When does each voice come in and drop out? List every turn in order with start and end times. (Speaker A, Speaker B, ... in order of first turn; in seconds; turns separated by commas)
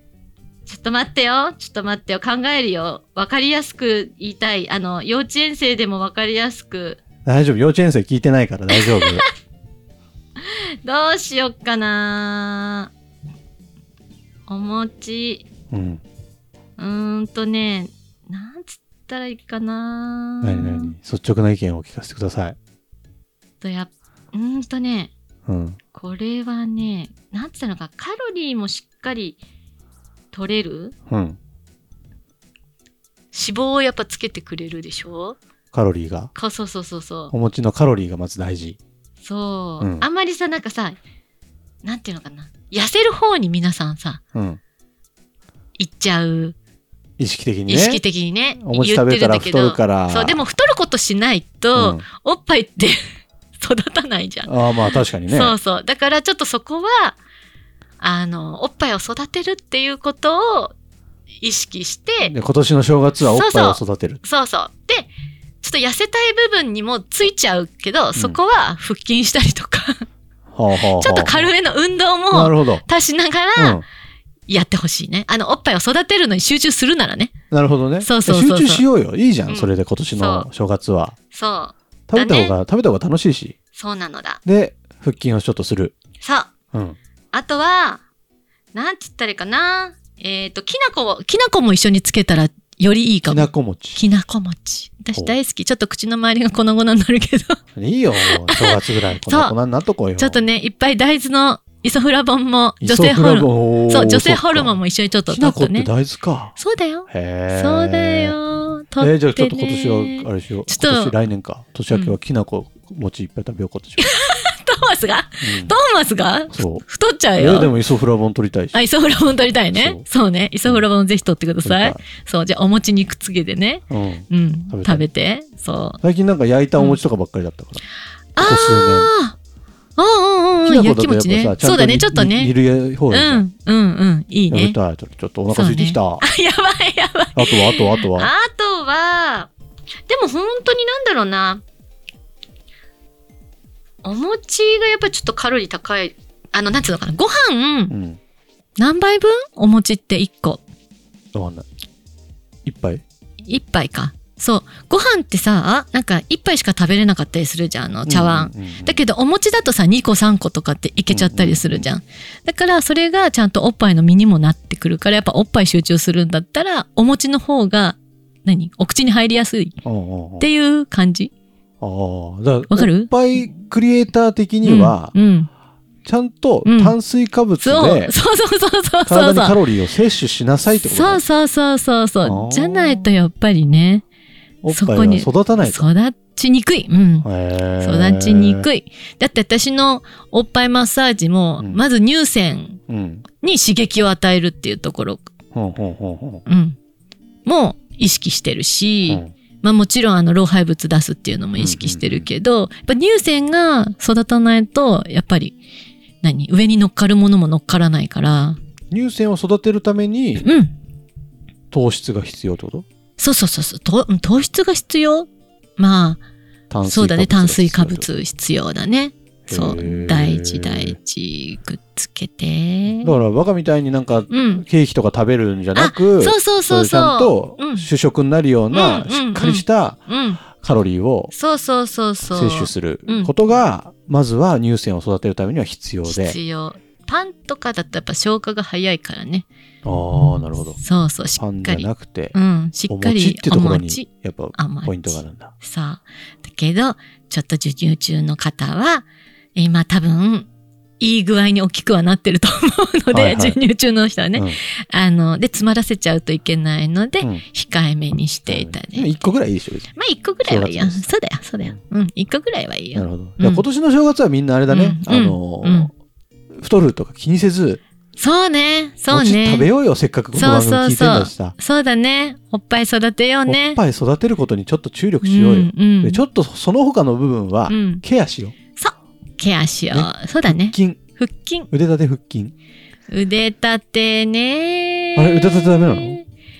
Speaker A: 0.7-7.0, Speaker B: 7.2-9.2, Speaker A: 8.7-9.2, Speaker A: 10.4-12.9, Speaker A: 14.5-15.4, Speaker B: 15.7-16.0, Speaker A: 16.8-20.9, Speaker B: 20.4-22.6, Speaker A: 23.6-25.1, Speaker B: 25.5-25.8, Speaker A: 25.9-29.4, Speaker A: 30.3-30.9, Speaker B: 31.1-31.4, Speaker A: 33.3-35.4, Speaker B: 35.7-36.3, Speaker A: 36.3-37.3, Speaker B: 37.3-38.8, Speaker A: 39.2-41.0, Speaker B: 39.8-40.0, Speaker A: 41.8-44.2, Speaker B: 44.3-44.6, Speaker A: 45.8-46.5, Speaker B: 47.2-48.0, Speaker A: 47.7-53.0, Speaker B: 48.6-50.4, Speaker B: 51.7-52.0, Speaker A: 53.6-57.2, Speaker B: 54.4-55.5, Speaker A: 58.0-60.7, Speaker A: 61.4-62.3, Speaker B: 62.2-64.2, Speaker A: 63.2-65.1, Speaker A: 65.6-70.0, Speaker B: 70.5-71.5, Speaker A: 70.8-73.8, Speaker B: 72.3-72.8, Speaker B: 73.5-73.8, Speaker A: 74.5-77.3, Speaker B: 77.5-81.1, Speaker A: 78.0-78.8, Speaker A: 79.5-80.5, Speaker A: 81.3-82.5, Speaker B: 82.1-83.5, Speaker A: 83.7-84.4, Speaker B: 84.4-85.9, Speaker A: 86.2-86.5, Speaker A: 87.3-88.0, Speaker A: 88.7-97.6, Speaker B: 93.2-94.0, Speaker B: 97.8-100.4, Speaker A: 98.2-99.5, Speaker A: 100.2-105.9, Speaker B: 102.8-106.5, Speaker A: 106.5-111.1, Speaker B: 107.1-108.4, Speaker B: 109.0-114.1, Speaker A: 111.9-112.2, Speaker A: 114.0-117.7, Speaker B: 115.4-115.7, Speaker B: 116.5-116.8, Speaker B: 117.4-118.8, Speaker A: 118.7-126.0, Speaker B: 119.7-120.0, Speaker B: 121.6-122.0, Speaker B: 123.9-125.0, Speaker B: 126.0-127.8, Speaker A: 128.3-129.3, Speaker B: 128.4-129.1, Speaker A: 130.0-132.5, Speaker B: 130.6-133.4, Speaker A: 133.1-134.8, Speaker B: 134.5-136.2, Speaker A: 135.5-139.5, Speaker B: 137.3-138.3, Speaker A: 140.1-141.6, Speaker A: 144.0-147.9, Speaker B: 147.9-148.2, Speaker A: 148.8-150.6, Speaker B: 151.3-151.7, Speaker B: 152.6-153.0, Speaker A: 153.5-169.8, Speaker B: 158.1-159.0, Speaker B: 161.1-161.9, Speaker B: 169.8-170.5, Speaker A: 170.4-171.3, Speaker B: 171.8-175.1, Speaker A: 172.7-173.4, Speaker A: 174.6-175.5, Speaker B: 176.0-178.1, Speaker A: 176.6-176.9, Speaker A: 177.6-179.6, Speaker B: 179.1-181.2, Speaker A: 180.7-184.0, Speaker B: 182.2-183.1, Speaker B: 184.6-185.9, Speaker A: 184.7-187.3, Speaker B: 187.2-188.7, Speaker A: 187.8-192.8, Speaker B: 192.9-193.2, Speaker A: 193.4-195.3, Speaker B: 195.5-196.4, Speaker A: 196.4-196.8, Speaker A: 197.4-205.6, Speaker B: 201.6-202.3, Speaker A: 206.2-208.6, Speaker B: 208.9-210.5, Speaker A: 210.4-210.7, Speaker B: 211.7-212.8, Speaker A: 213.2-216.2, Speaker B: 216.7-218.1, Speaker A: 216.8-223.2, Speaker B: 219.5-220.9, Speaker B: 223.0-231.3, Speaker A: 224.3-224.6, Speaker A: 225.7-227.9, Speaker A: 228.7-230.4, Speaker A: 231.3-233.3, Speaker B: 232.3-236.4, Speaker A: 236.0-239.5, Speaker B: 239.8-240.8, Speaker A: 240.8-250.5, Speaker B: 241.4-242.3, Speaker B: 242.9-245.5, Speaker A: 251.0-259.2, Speaker B: 253.1-253.6, Speaker B: 258.4-261.1, Speaker A: 259.9-263.6, Speaker B: 262.9-265.9, Speaker A: 264.7-265.9, Speaker B: 266.5-267.8, Speaker A: 268.2-269.7, Speaker B: 269.1-271.5, Speaker A: 270.3-273.8, Speaker B: 273.4-278.5, Speaker A: 275.2-276.2, Speaker A: 277.7-278.0, Speaker A: 278.8-281.7, Speaker B: 279.9-281.0, Speaker B: 281.7-282.5, Speaker A: 283.1-286.2, Speaker B: 285.1-286.2